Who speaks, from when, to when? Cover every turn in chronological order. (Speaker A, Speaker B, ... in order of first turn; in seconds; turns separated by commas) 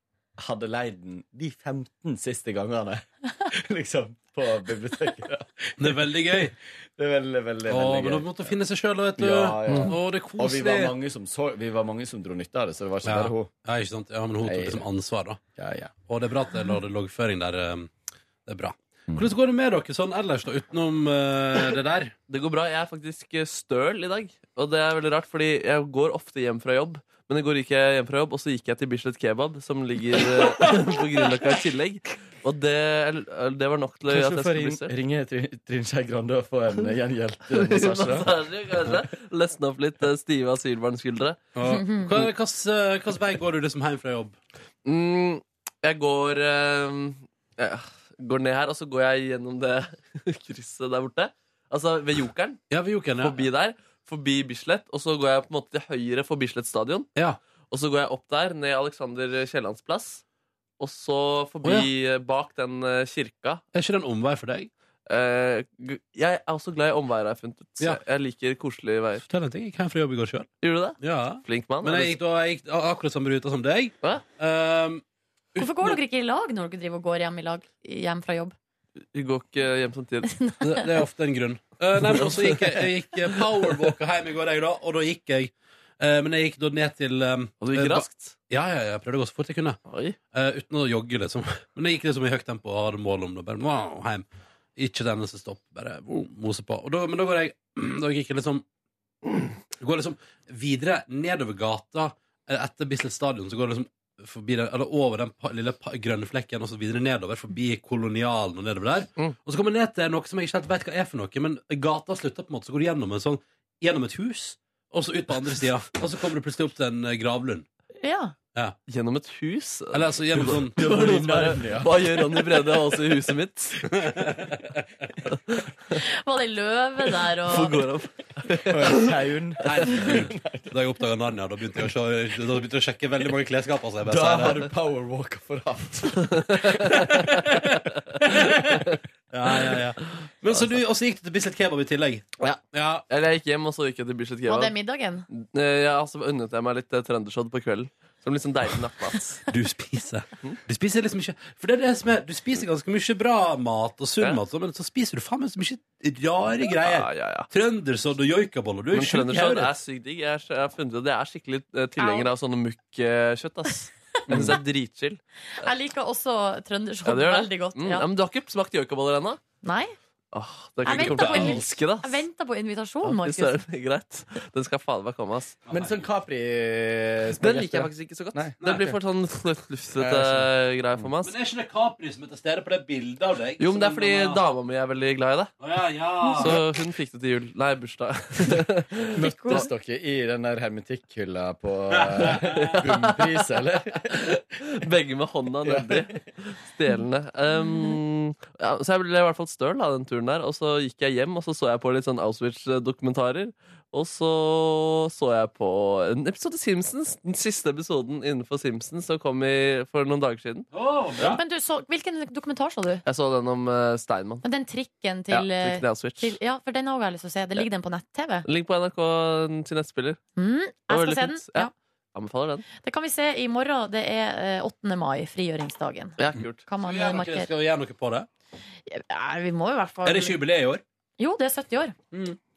Speaker A: 0.4-8.6, Speaker B: 5.8-6.5, Speaker B: 7.7-10.9, Speaker A: 9.2-13.5, Speaker C: 9.7-9.9, Speaker B: 13.1-15.4, Speaker A: 14.4-14.8, Speaker A: 15.5-15.9, Speaker B: 16.1-17.9, Speaker B: 18.4-22.1, Speaker C: 22.3-34.9, Speaker A: 34.0-38.5, Speaker C: 37.5-41.4, Speaker B: 41.5-44.4, Speaker D: 41.7-42.1, Speaker C: 44.8-52.6, Speaker B: 52.7-53.4, Speaker C: 53.2-57.1, Speaker C: 57.7-60.2, Speaker C: 60.8-63.6, Speaker B: 61.6-61.9, Speaker B: 63.7-64.7, Speaker C: 65.1-69.2, Speaker B: 69.2-75.0, Speaker C: 70.6-72.2, Speaker B: 75.5-76.0, Speaker D: 75.6-78.5, Speaker C: 79.1-80.3, Speaker D: 80.3-80.9, Speaker B: 80.6-89.8, Speaker C: 82.1-83.8, Speaker C: 87.6-88.3, Speaker C: 89.9-90.2, Speaker B: 90.3-98.6, Speaker B: 99.7-117.7, Speaker D: 118.0-118.3, Speaker C: 118.9-123.9, Speaker B: 119.9-121.2, Speaker A: 120.4-122.9, Speaker B: 123.9-124.7, Speaker C: 125.5-125.9, Speaker D: 125.9-127.7, Speaker C: 127.4-129.0, Speaker A: 128.6-130.8, Speaker B: 129.6-134.7, Speaker A: 134.0-136.8, Speaker B: 137.1-138.8, Speaker B: 139.3-143.1, Speaker C: 143.1-144.7, Speaker D: 144.5-145.2, Speaker C: 145.3-149.4, Speaker B: 149.5-159.7, Speaker C: 156.8-157.5, Speaker C: 158.9-165.2, Speaker D: 162.0-162.3, Speaker D: 165.6-168.1, Speaker C: 167.1-169.4, Speaker D: 169.6-169.9, Speaker C: 170.3-172.2, Speaker D: 170.8-173.6, Speaker B: 170.8-171.7, Speaker C: 173.0-175.6, Speaker B: 175.7-176.0, Speaker A: 175.7-179.0, Speaker C: 177.4-181.3, Speaker B: 178.6-178.9, Speaker A: 179.9-181.1, Speaker B: 181.2-184.4, Speaker C: 183.6-185.5, Speaker B: 185.6-186.6, Speaker C: 186.4-189.7, Speaker A: 189.1-194.4, Speaker D: 189.2-189.7, Speaker B: 192.1-192.8, Speaker C: 192.4-193.4, Speaker C: 194.1-210.7, Speaker A: 195.6-196.1, Speaker D: 197.6-197.9, Speaker B: 210.7-211.4, Speaker D: 211.3-213.0, Speaker C: 213.1-214.4, Speaker D: 214.4-218.4, Speaker C: 215.3-216.4, Speaker C: 218.4-220.2, Speaker D: 220.4-221.7, Speaker C: 220.9-222.7, Speaker D: 222.8-227.5, Speaker C: 226.2-226.6, Speaker B: 226.8-228.3, Speaker D: 228.9-230.4, Speaker B: 230.0-230.8, Speaker D: 231.2-231.9, Speaker B: 232.1-232.4